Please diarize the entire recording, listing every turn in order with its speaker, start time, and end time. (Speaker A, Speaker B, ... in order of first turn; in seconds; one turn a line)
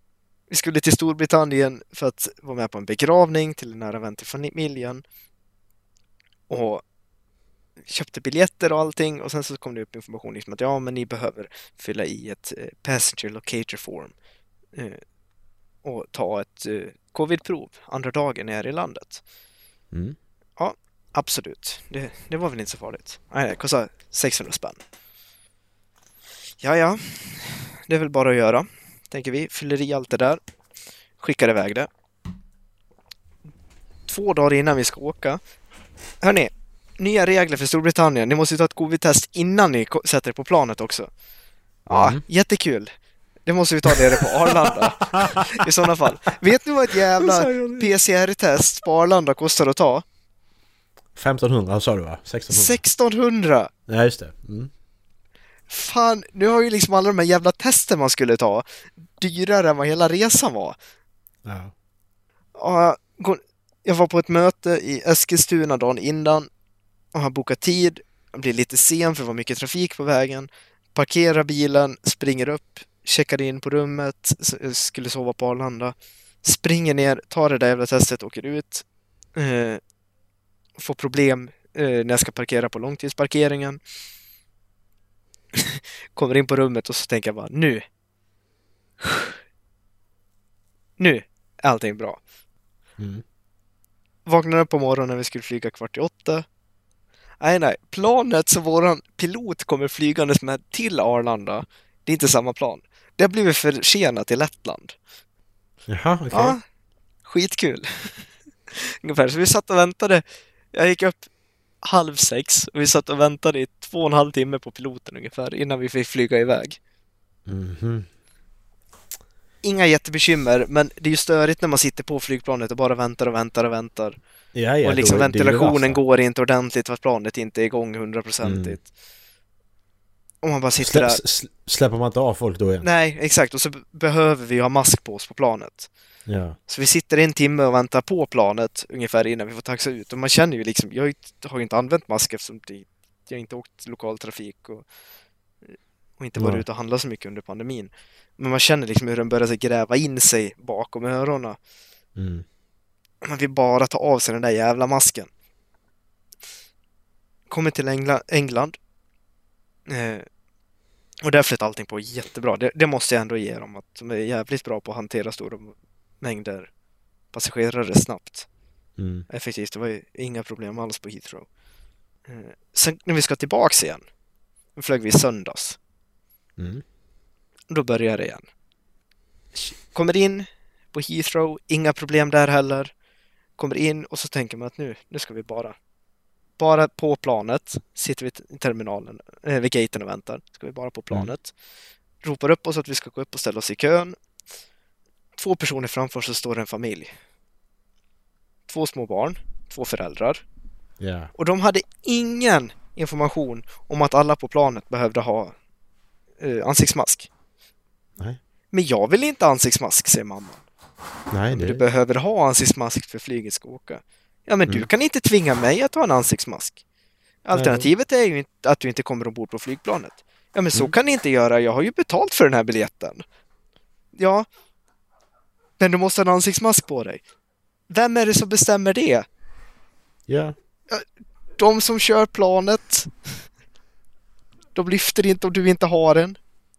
Speaker A: 0.5-5.0
Speaker A: 6.5-6.8
Speaker A: 7.8-14.1
Speaker A: 14.7-15.0
Speaker A: 15.8-19.2
Speaker A: 20.6-24.8
Speaker A: 26.6-30.4
Speaker A: 31.2-31.9
Speaker A: 34.1-35.4
Speaker A: 36.2-41.1
Speaker B: 41.9-42.2
Speaker A: 41.9-42.9
Speaker A: 43.5-50.0
Speaker B: 44.5-45.4
Speaker B: 47.2-47.9
Speaker B: 51.1-52.8
Speaker A: 52.5-53.7
Speaker B: 53.9-54.7
Speaker A: 55.7-58.6
Speaker A: 59.2-60.8
Speaker B: 61.4-61.7
Speaker A: 62.5-66.5
Speaker A: 67.1-78.8
Speaker A: 79.3-79.8
Speaker A: 80.8-83.8
Speaker A: 85.5-87.8
Speaker A: 89.0-89.3
Speaker A: 91.0-92.2
Speaker B: 93.0-93.2
Speaker A: 94.2-96.4
Speaker A: 97.4-104.9
Speaker B: 105.9-106.6
Speaker A: 106.3-106.6
Speaker A: 107.2-108.1
Speaker A: 108.7-111.2
Speaker A: 111.8-116.8
Speaker B: 117.5-118.1
Speaker A: 119.6-124.2
Speaker B: 124.5-126.0
Speaker A: 124.8-128.8
Speaker B: 128.4-128.8
Speaker A: 130.4-131.2
Speaker B: 130.8-132.9
Speaker A: 132.8-135.9
Speaker B: 136.3-136.6
Speaker A: 136.7-144.8
Speaker A: 145.7-151.6
Speaker B: 146.4-146.6
Speaker B: 152.2-152.4
Speaker A: 153.2-155.3
Speaker A: 157.5-158.8
Speaker A: 159.9-160.2
Speaker A: 161.2-166.7
Speaker A: 167.3-168.5
Speaker B: 169.0-169.2
Speaker A: 169.3-171.4
Speaker A: 172.3-174.0
Speaker A: 174.8-175.8
Speaker B: 176.6-176.8
Speaker A: 177.7-178.4
Speaker A: 179.5-182.9
Speaker A: 183.6-185.7
Speaker A: 186.6-191.5
Speaker A: 192.2-194.2
Speaker A: 195.3-197.1
Speaker A: 198.7-200.4
Speaker B: 201.0-201.3
Speaker A: 201.4-205.5
Speaker A: 206.4-207.3
Speaker A: 208.7-210.6
Speaker B: 211.3-211.8
Speaker A: 211.5-216.8
Speaker A: 217.4-223.2
Speaker B: 217.5-217.9
Speaker A: 224.2-224.4
Speaker A: 225.8-227.2
Speaker A: 227.9-229.2
Speaker B: 230.3-230.6
Speaker A: 231.6-233.1
Speaker A: 234.7-236.4